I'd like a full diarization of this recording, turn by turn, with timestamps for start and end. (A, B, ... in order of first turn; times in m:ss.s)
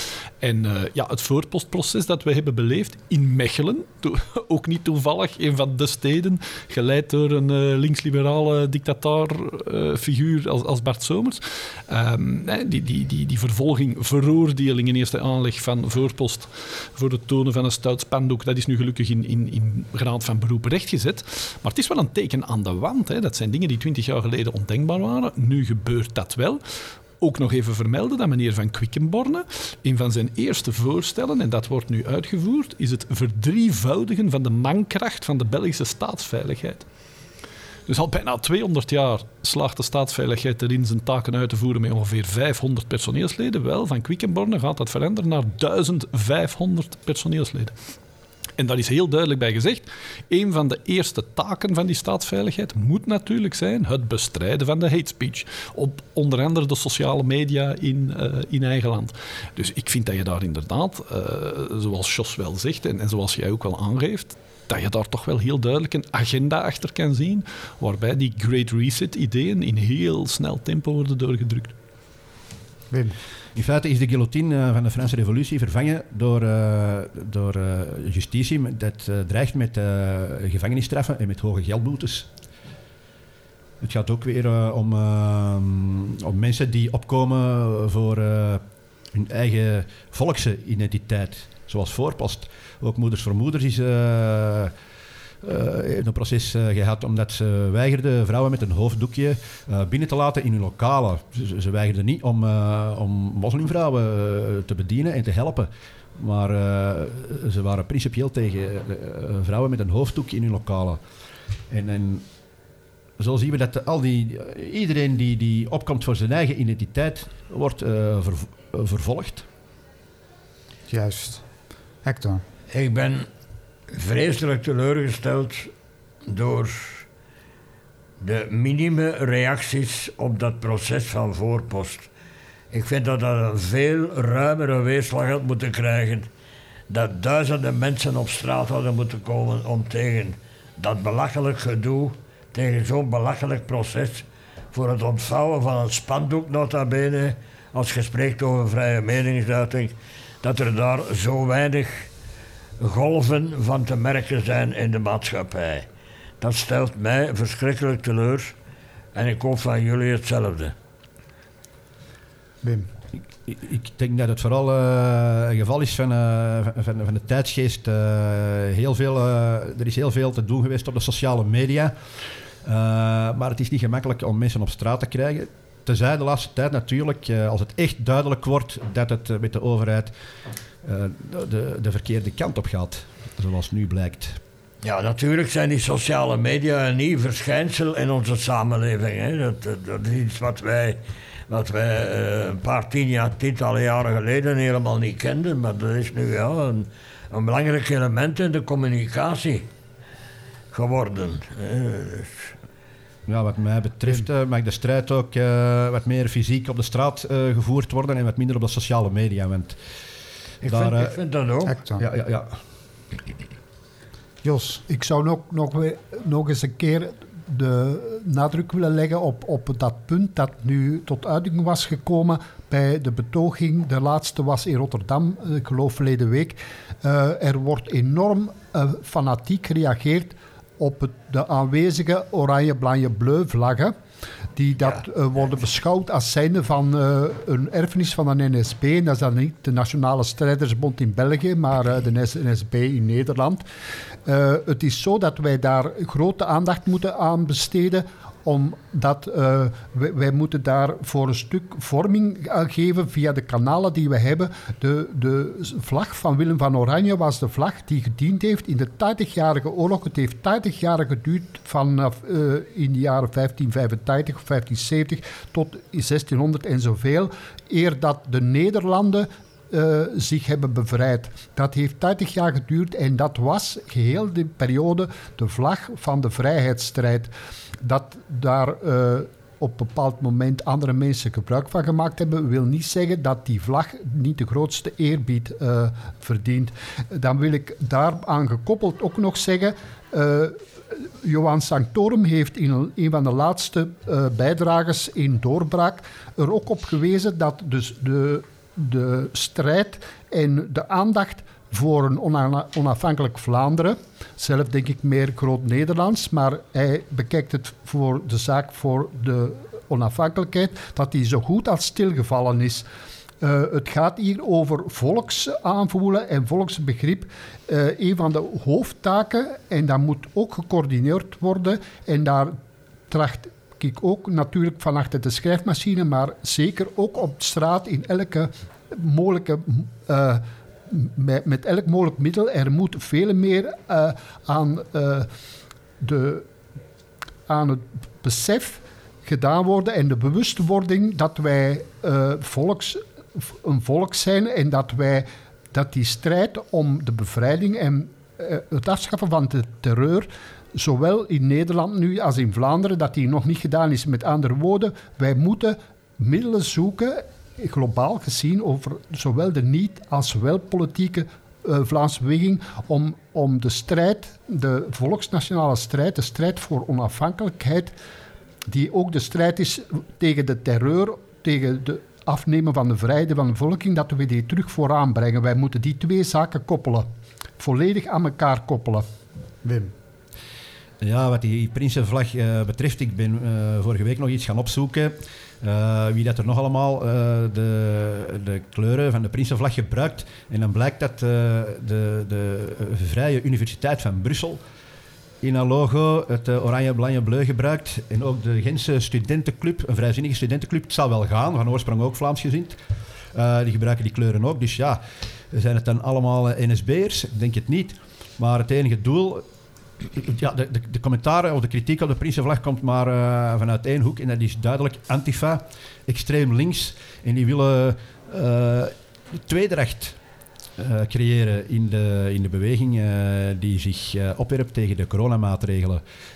0:00.4-0:26.6 A
0:27.2-0:36.9 A
0:37.9-0:47.7 A
0:48.6-1:11.7 A
1:12.9-1:13.2 B
1:13.5-1:22.3 C
1:23.8-1:34.7 C
1:35.4-1:51.0 C
1:51.7-1:52.2 C
1:53.2-1:59.5 C
2:00.9-2:01.4 B
2:02.0-2:02.4 B
2:02.7-2:03.3 D
2:03.9-2:05.7 D
2:06.3-2:07.0 D
2:08.2-2:12.1 D
2:12.7-2:16.3 D
2:16.9-2:32.1 D
2:32.8-2:35.9 D
2:36.4-2:38.5 D
2:39.1-2:40.7 D
2:42.6-2:42.9 B
2:43.4-2:51.9 C
2:52.6-3:00.1 C
3:00.8-3:04.4 C
3:04.8-3:19.7 D
3:20.7-3:22.5 D
3:23.2-3:29.8 C
3:30.6-3:31.1 C
3:30.6-3:31.7 D
3:31.7-3:32.0 B
3:32.0-3:32.5 C
3:34.4-3:34.8 B
3:34.9-3:53.9 E
3:54.5-4:03.6 E
4:04.2-5:12.8 E
5:13.4-5:22.6 E
5:23.1-5:35.3 E
5:36.0-5:36.5 E
5:37.5-6:07.9 E
6:08.7-6:17.1 E
6:17.6-6:19.1 E
6:19.6-6:19.9 B
6:21.0-6:34.6 C
6:35.4-6:42.8 C
6:43.3-6:49.4 C
6:50.0-7:00.2 C
7:00.8-7:06.0 C